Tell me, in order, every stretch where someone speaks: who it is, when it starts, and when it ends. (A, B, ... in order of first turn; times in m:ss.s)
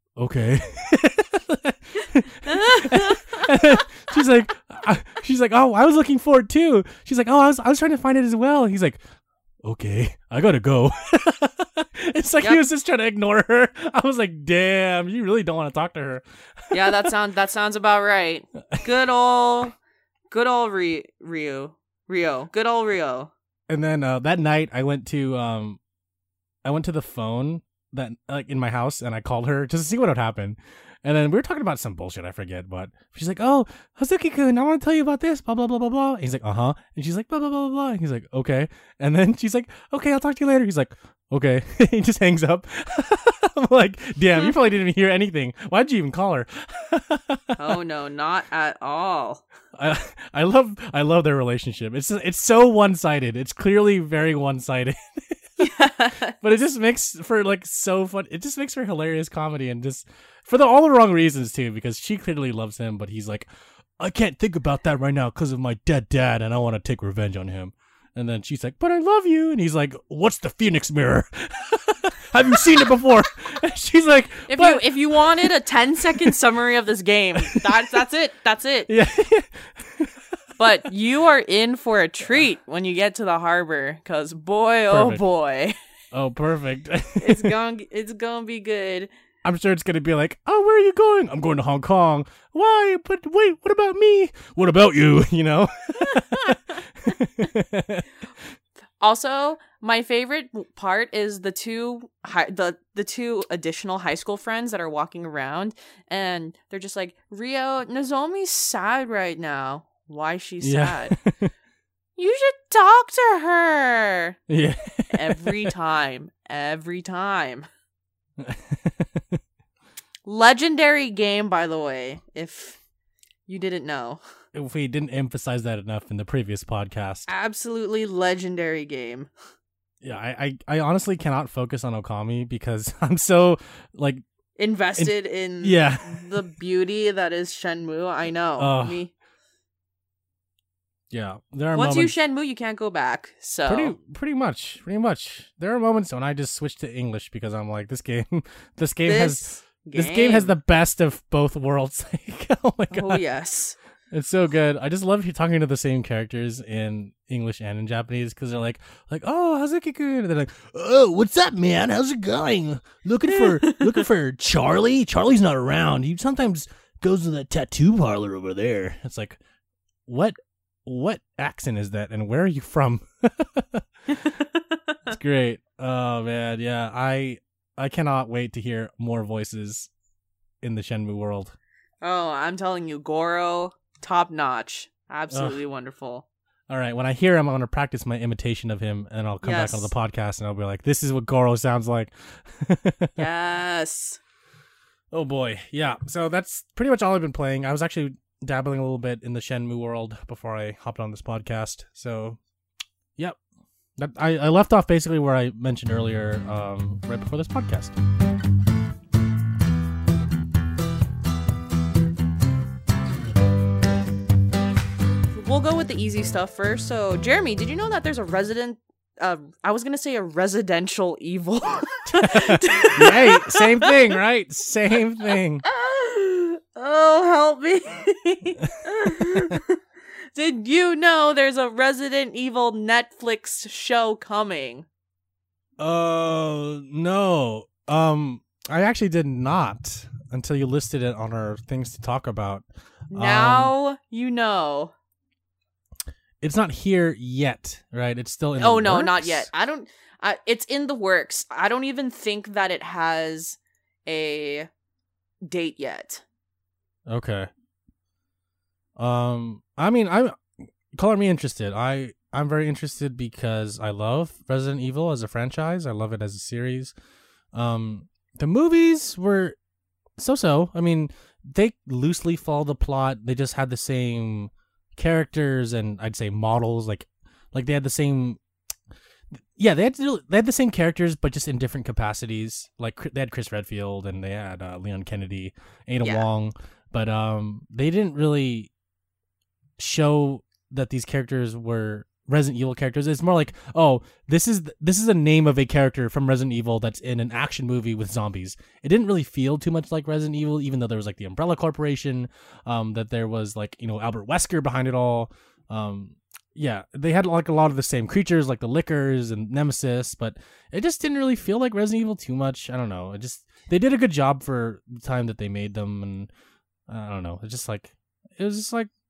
0:00.2-0:09.0 A
0:02.5-0:03.5 B
0:09.6-0:17.1 A
0:16.7-0:19.8 B
0:20.3-0:23.3 B
0:23.7-0:25.8 A
0:26.6-0:47.6 A
0:47.6-0:49.4 B
0:49.8-0:55.6 A
0:55.6-0:56.3 B
0:56.4-1:03.5 A
1:04.0-1:15.5 A
1:14.5-1:18.9 B
1:16.1-1:16.4 A
1:17.4-1:18.0 A
1:18.9-1:20.4 A
1:20.6-1:25.8 B
1:24.9-1:25.2 A
1:26.1-1:27.6 A
1:27.2-1:29.1 B
1:29.4-1:38.5 A
1:36.1-1:36.6 B
1:39.0-1:51.2 B
1:50.6-1:51.5 A
1:52.2-1:54.4 B
1:54.5-1:55.7 A
1:55.1-1:57.7 B
1:58.4-1:59.4 A
2:00.3-2:02.8 B
2:03.5-2:04.2 B
2:04.5-2:07.3 A
2:07.3-2:09.3 B
2:10.0-2:14.2 A
2:14.6-2:19.1 B
2:15.0-2:16.4 A
2:18.6-2:19.0 A
2:21.1-2:22.1 A
2:21.7-2:24.0 B
2:23.7-2:33.2 A
2:29.1-2:30.5 B
2:32.9-2:33.8 B
2:34.1-2:49.4 A
2:43.4-2:43.8 B
2:50.1-2:53.8 A
2:54.1-2:55.0 B
2:55.1-2:59.9 A
3:00.6-3:01.6 A
3:02.0-3:06.2 B
3:05.3-3:05.6 A
3:06.7-3:13.2 A
3:09.4-3:09.9 B
3:13.2-3:14.2 B
3:15.1-3:22.4 A
3:24.0-3:28.0 A
3:35.3-3:43.9 B
3:42.2-3:45.6 A
3:45.6-3:49.8 B
3:49.2-3:49.6 A
3:50.3-3:54.9 B
3:55.8-4:03.7 A
4:03.1-4:04.9 B
4:06.4-4:09.5 A
4:08.6-4:14.7 B
4:15.4-4:16.2 B
4:17.1-4:17.5 A
4:19.0-4:26.9 A
4:27.5-4:29.6 A
4:30.2-4:38.4 A
4:39.6-4:48.7 A
4:46.0-4:46.3 B
4:49.8-5:16.3 A
5:16.9-5:18.9 A